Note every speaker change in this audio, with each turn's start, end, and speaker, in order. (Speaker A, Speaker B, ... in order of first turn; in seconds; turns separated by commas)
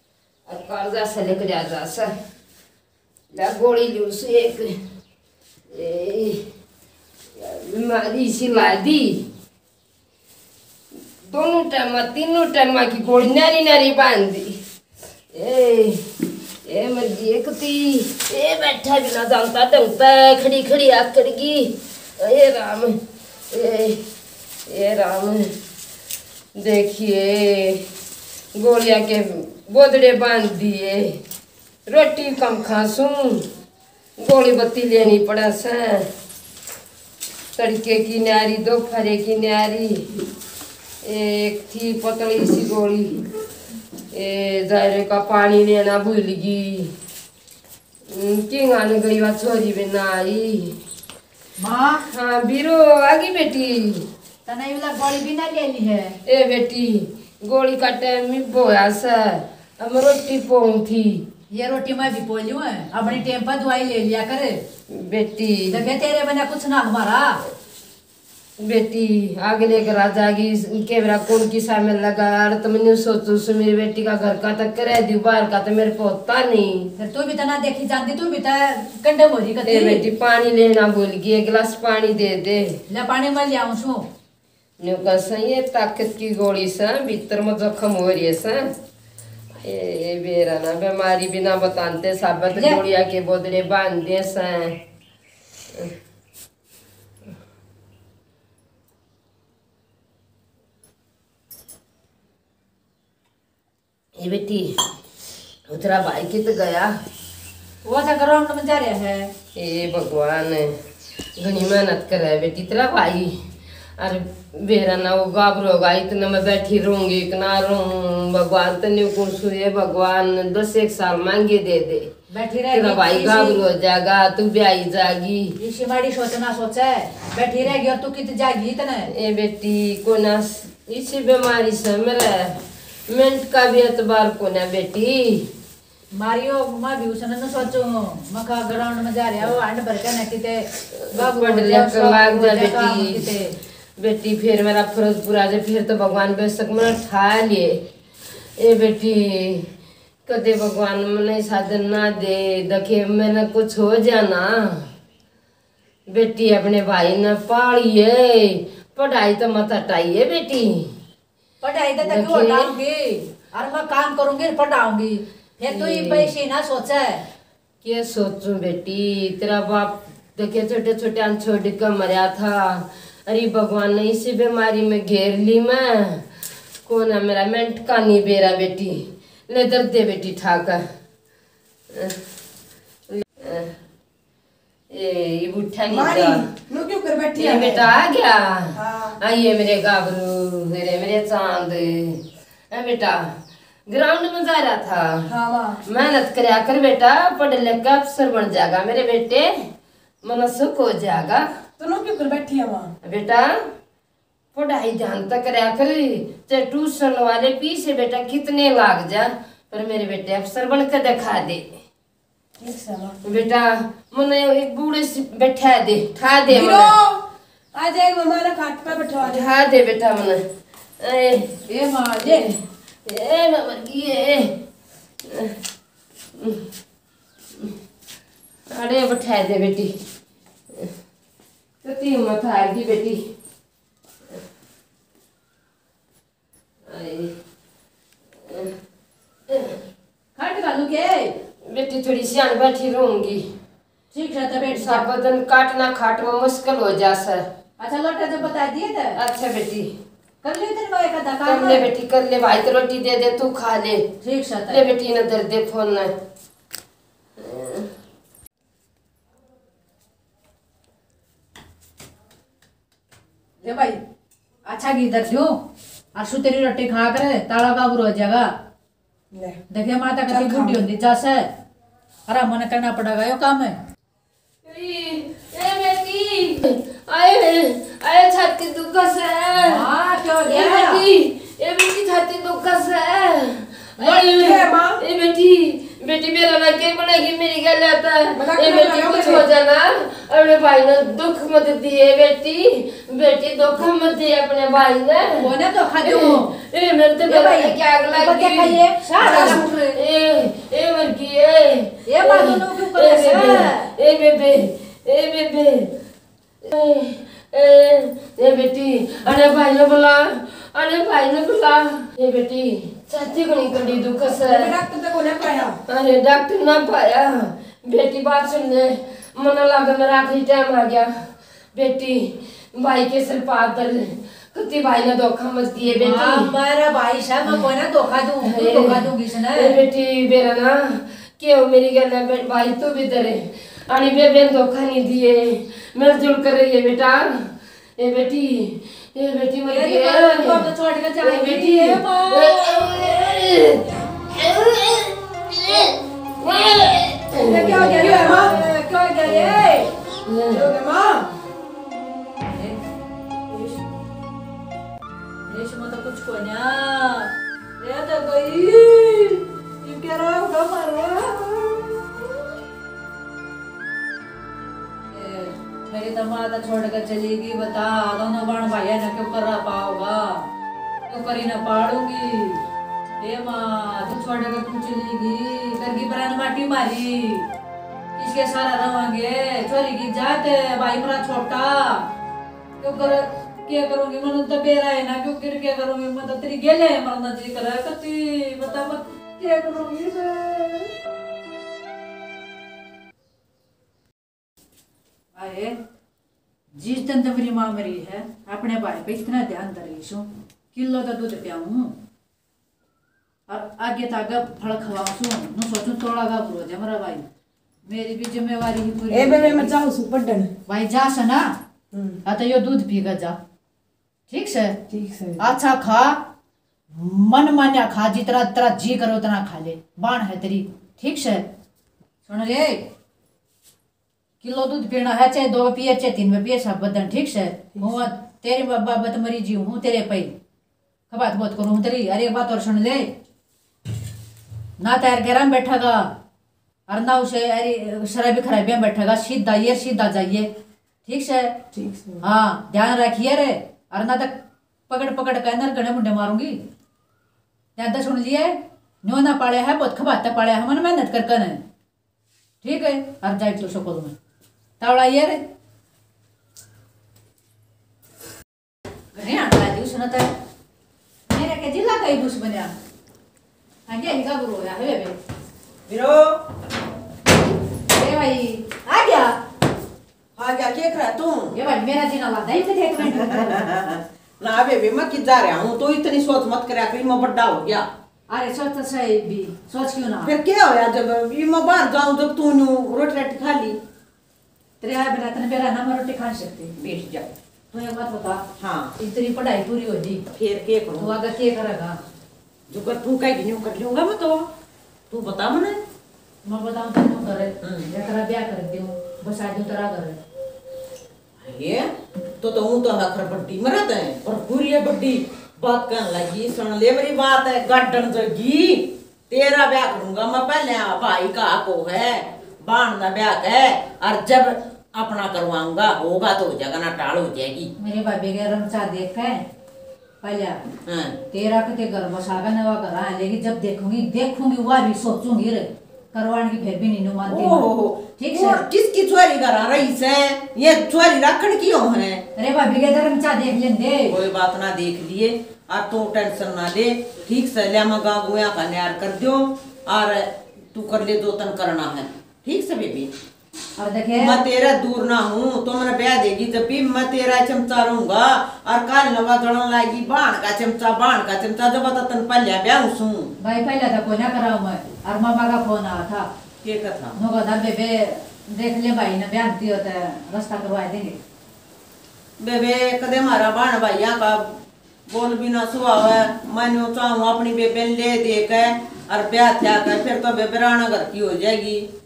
Speaker A: 0.5-2.1, Speaker A: 3.3-4.8, Speaker A: 5.7-6.4, Speaker A: 7.4-9.2, Speaker A: 11.2-14.6, Speaker A: 15.3-16.0, Speaker A: 16.6-23.0, Speaker A: 23.5-24.0, Speaker A: 24.7-25.5, Speaker A: 26.6-27.8, Speaker A: 28.5-31.1, Speaker A: 31.9-33.4, Speaker A: 34.2-36.0, Speaker A: 37.5-40.0, Speaker A: 41.0-43.2, Speaker A: 44.1-46.9, Speaker A: 48.1-50.7, Speaker B: 51.6-52.0, Speaker A: 52.1-54.0, Speaker B: 54.5-56.2, Speaker A: 56.2-61.2, Speaker B: 61.5-64.5, Speaker A: 64.9-65.8, Speaker B: 65.7-67.4, Speaker A: 68.6-76.9, Speaker B: 77.0-80.0, Speaker A: 79.6-82.8, Speaker B: 82.9-84.0, Speaker A: 84.8-88.7, Speaker A: 89.5-94.7, Speaker B: 92.5-92.8, Speaker A: 104.2-104.7, Speaker A: 105.7-106.9, Speaker B: 107.8-109.3, Speaker A: 109.5-110.7, Speaker A: 111.4-113.3, Speaker A: 114.0-122.1, Speaker B: 122.3-123.6, Speaker A: 122.7-125.5, Speaker B: 125.6-129.1, Speaker A: 129.1-132.6, Speaker A: 133.1-135.4, Speaker B: 136.1-143.5, Speaker A: 140.9-143.3, Speaker A: 144.0-147.8, Speaker A: 148.6-149.7, Speaker A: 150.2-154.9, Speaker A: 156.1-160.9, Speaker B: 161.6-167.2, Speaker A: 162.0-162.7, Speaker A: 165.7-166.3, Speaker A: 167.8-176.2, Speaker A: 176.8-180.8, Speaker A: 181.9-182.2, Speaker A: 183.2-183.7, Speaker A: 184.9-186.5, Speaker C: 185.9-187.9, Speaker A: 187.3-193.3, Speaker C: 188.7-189.2, Speaker A: 193.9-195.3, Speaker C: 195.2-195.8, Speaker A: 195.8-199.5, Speaker A: 200.2-201.5, Speaker C: 201.8-202.9, Speaker A: 203.0-203.6, Speaker A: 204.5-211.6, Speaker C: 212.6-213.2, Speaker A: 213.2-217.0, Speaker C: 216.5-219.4, Speaker A: 219.0-220.4, Speaker A: 221.0-221.5, Speaker B: 221.7-222.5, Speaker A: 222.2-224.5, Speaker A: 225.2-225.5, Speaker A: 226.3-226.7, Speaker A: 228.7-229.9, Speaker A: 231.8-233.2, Speaker A: 236.9-237.3, Speaker A: 238.4-238.7, Speaker A: 239.5-239.8, Speaker B: 240.3-241.3, Speaker A: 241.7-243.4, Speaker B: 244.1-245.1, Speaker A: 244.6-247.4, Speaker B: 247.8-249.2, Speaker A: 249.2-249.9, Speaker B: 250.4-251.9, Speaker A: 251.4-254.0, Speaker B: 254.2-254.8, Speaker A: 254.7-256.1, Speaker A: 257.4-257.9, Speaker B: 263.6-264.0, Speaker B: 264.7-265.5, Speaker B: 266.1-268.5, Speaker C: 269.3-269.6, Speaker B: 269.7-271.4, Speaker C: 270.3-270.8, Speaker B: 272.3-273.8, Speaker A: 274.6-279.9, Speaker B: 279.6-281.0, Speaker A: 280.4-295.5, Speaker C: 284.1-285.0, Speaker C: 288.4-289.4, Speaker B: 295.4-296.5, Speaker A: 296.0-305.9, Speaker B: 297.2-300.0, Speaker B: 302.1-303.9, Speaker A: 306.6-314.8, Speaker C: 314.3-315.8, Speaker A: 315.9-321.1, Speaker A: 321.7-326.5, Speaker B: 326.0-329.8, Speaker A: 328.4-340.7, Speaker B: 339.7-342.9, Speaker A: 341.2-348.6, Speaker B: 347.4-349.9, Speaker C: 348.2-348.5, Speaker A: 349.3-349.6, Speaker A: 350.2-350.7, Speaker C: 350.5-351.3, Speaker B: 352.5-352.8, Speaker B: 355.5-362.2, Speaker B: 365.1-370.5, Speaker B: 371.1-372.6, Speaker B: 373.2-377.5, Speaker B: 378.1-382.1, Speaker B: 382.8-390.9, Speaker B: 395.3-395.8, Speaker B: 396.7-401.9, Speaker B: 403.5-407.2, Speaker B: 407.9-409.8, Speaker C: 409.1-410.5, Speaker B: 410.7-411.5, Speaker C: 411.9-412.2, Speaker B: 412.2-413.4, Speaker B: 414.3-414.8, Speaker C: 414.9-415.4, Speaker B: 415.4-416.2, Speaker B: 416.9-421.4, Speaker B: 422.3-422.8, Speaker B: 424.4-430.3, Speaker B: 431.1-433.0, Speaker B: 434.8-436.1, Speaker B: 436.9-440.5, Speaker B: 441.1-441.5, Speaker C: 441.7-442.2, Speaker B: 442.2-444.3, Speaker B: 444.9-446.6, Speaker B: 447.8-451.6, Speaker B: 452.6-454.1, Speaker B: 454.8-455.4, Speaker B: 459.1-460.3, Speaker B: 461.3-462.7, Speaker B: 463.9-465.1, Speaker D: 465.9-466.4, Speaker B: 467.9-469.3, Speaker D: 470.4-471.6, Speaker B: 471.5-473.7, Speaker D: 473.0-477.9, Speaker B: 478.3-480.3, Speaker D: 480.2-483.8, Speaker B: 484.8-486.7, Speaker D: 486.8-487.3, Speaker B: 487.7-488.4, Speaker D: 488.6-488.9, Speaker B: 489.0-490.2, Speaker D: 490.3-491.1, Speaker B: 491.0-492.0, Speaker D: 492.7-494.5, Speaker D: 495.1-495.8, Speaker B: 496.4-500.2, Speaker D: 497.6-497.9, Speaker D: 501.4-501.9, Speaker D: 502.4-517.7, Speaker B: 517.8-519.4, Speaker B: 520.2-520.6, Speaker D: 520.9-521.2, Speaker B: 521.3-528.6, Speaker D: 527.2-532.2, Speaker B: 532.4-534.2, Speaker D: 534.1-543.1, Speaker B: 543.8-544.4, Speaker D: 544.2-553.3, Speaker B: 553.4-556.3, Speaker D: 556.6-557.2, Speaker B: 557.2-561.2, Speaker D: 562.4-564.6, Speaker D: 565.1-571.9